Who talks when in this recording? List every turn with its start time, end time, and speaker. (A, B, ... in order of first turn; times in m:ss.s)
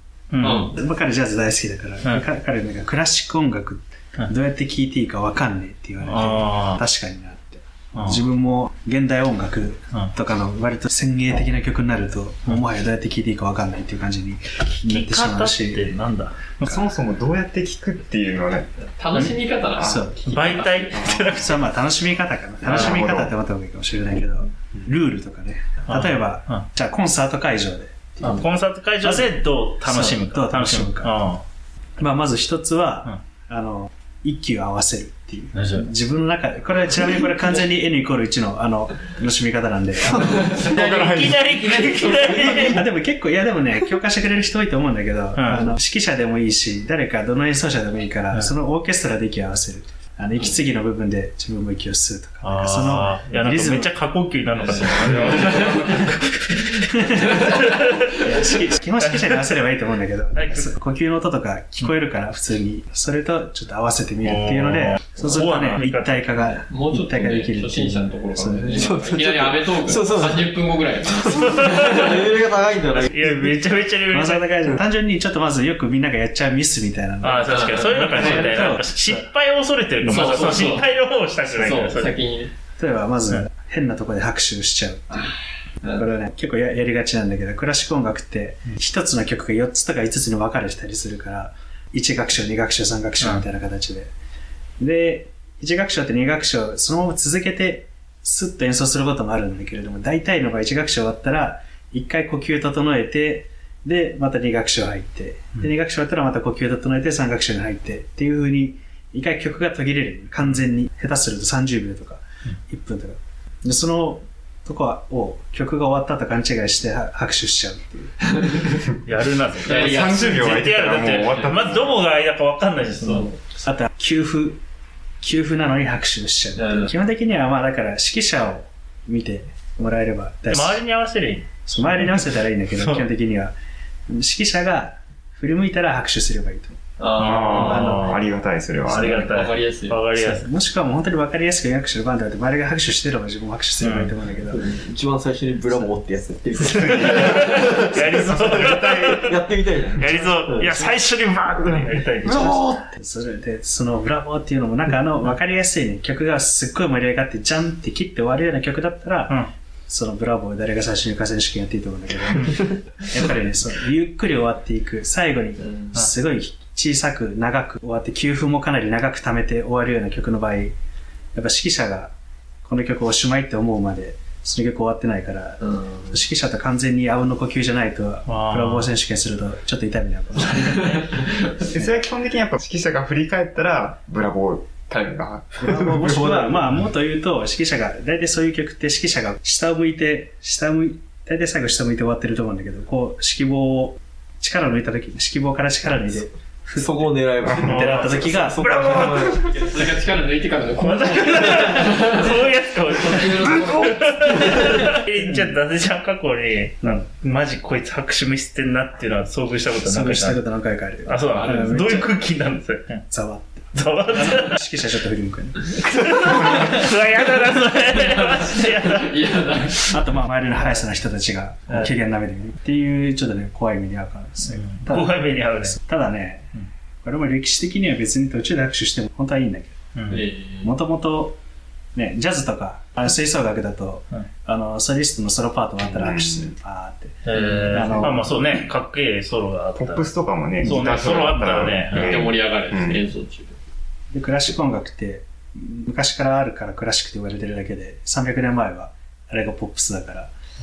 0:00.3-0:00.7 A
0:00.4-0:00.7 B
0:00.6-0:15.9 C
0:06.0-0:06.8 A
0:07.9-0:08.2 A
0:14.8-0:16.7 A
0:16.6-0:18.7 D
0:19.0-0:21.0 B
0:19.3-0:21.5 D
0:19.8-0:20.3 C
0:20.2-0:21.6 A
0:21.3-0:28.5 C
0:22.6-0:23.3 D
0:25.8-0:26.6 A
0:28.2-0:31.4 A
0:29.0-0:31.3 C
0:32.0-0:40.6 C
0:35.5-0:35.9 A
0:40.5-0:41.5 D
0:40.5-0:42.9 A
0:41.8-0:42.4 B
0:42.2-0:53.9 C
0:45.3-0:45.7 A
0:52.4-0:58.1 A
0:55.1-0:56.0 B
0:56.8-1:09.0 C
1:00.3-1:00.7 A
1:04.2-1:06.5 A
1:06.7-1:12.3 B
1:08.7-1:13.6 E
1:11.3-1:12.1 A
1:12.9-1:14.6 A
1:14.1-1:19.2 C
1:17.2-1:22.2 A
1:17.5-1:18.6 B
1:20.0-1:20.8 B
1:21.5-1:22.5 B
1:22.8-1:34.1 C
1:34.8-1:58.4 C
1:58.4-1:58.8 B
1:59.0-2:03.4 A
1:59.6-2:00.5 B
1:59.6-2:02.0 D
2:01.1-2:01.5 B
2:03.0-2:03.3 B
2:03.6-2:04.6 C
2:05.2-2:10.8 C
2:06.6-2:06.9 B
2:10.5-2:12.2 A
2:11.6-2:13.5 C
2:12.8-2:13.0 A
2:14.1-2:16.8 C
2:17.0-2:17.9 B
2:17.2-2:18.3 A
2:17.2-2:19.3 D
2:17.5-2:18.2 C
2:18.8-2:20.5 A
2:18.9-2:20.0 B
2:20.1-2:24.6 C
2:23.8-2:24.1 A
2:24.5-2:30.9 E
2:26.7-2:29.4 A
2:30.0-2:32.6 A
2:31.6-2:32.8 D
2:32.4-2:32.8 E
2:32.9-2:39.4 C
2:39.9-2:50.7 C
2:51.3-2:52.1 C
2:52.6-3:02.0 C
2:55.6-2:56.0 B
2:58.3-2:58.9 A
3:00.5-3:01.2 A
3:00.9-3:01.3 B
3:01.6-3:06.4 D
3:05.5-3:18.8 C
3:05.8-3:06.7 E
3:16.7-3:19.9 E
3:17.6-3:19.5 A
3:19.4-3:24.8 B
3:20.8-3:30.4 A
3:29.8-3:32.2 C
3:31.0-3:33.0 A
3:33.1-3:36.7 C
3:33.7-3:34.6 A
3:35.8-3:39.1 A
3:38.2-3:40.0 B
3:39.8-3:49.8 C
3:44.4-3:45.8 A
3:49.9-3:50.2 A
3:50.1-3:50.7 B
3:50.6-3:51.4 C
3:51.9-3:58.3 C
3:56.0-3:56.5 D
3:57.2-4:02.3 A
3:57.4-3:57.6 B
3:59.8-4:03.0 D
4:01.9-4:03.6 B
4:04.1-4:10.3 C